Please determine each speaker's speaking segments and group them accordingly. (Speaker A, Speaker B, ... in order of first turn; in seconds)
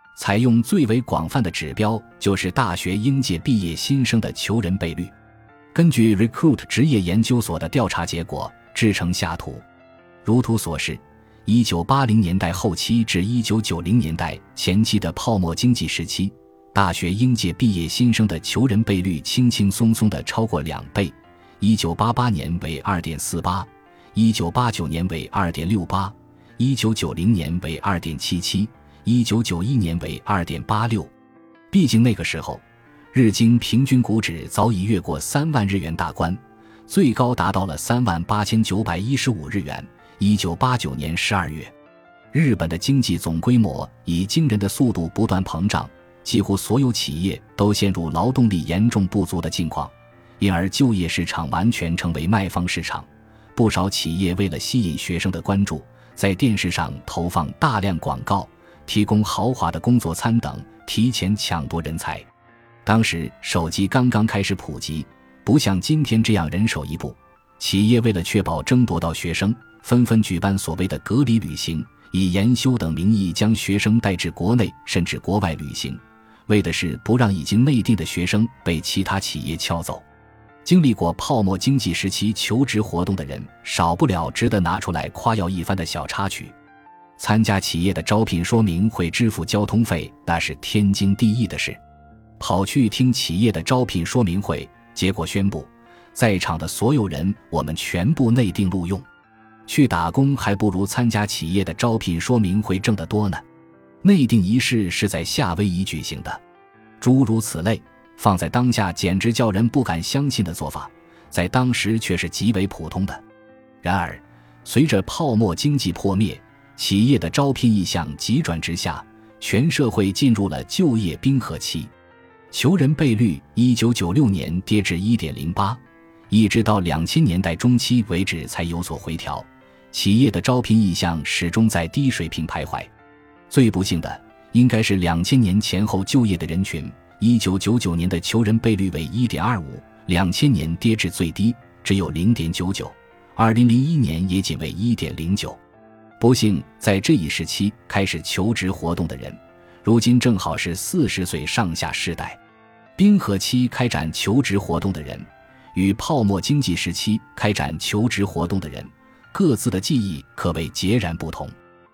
Speaker A: 0.1-5.1, 5.7-9.6, 10.2-31.1, 31.7-41.7, 42.3-62.3, 62.8-80.0, 80.6-86.5, 87.2-91.8, 92.4-99.1, 99.7-103.4, 104.0-106.4, 107.0-113.2, 113.8-121.9, 122.5-132.9, 133.5-145.6, 146.2-152.4, 153.0-161.6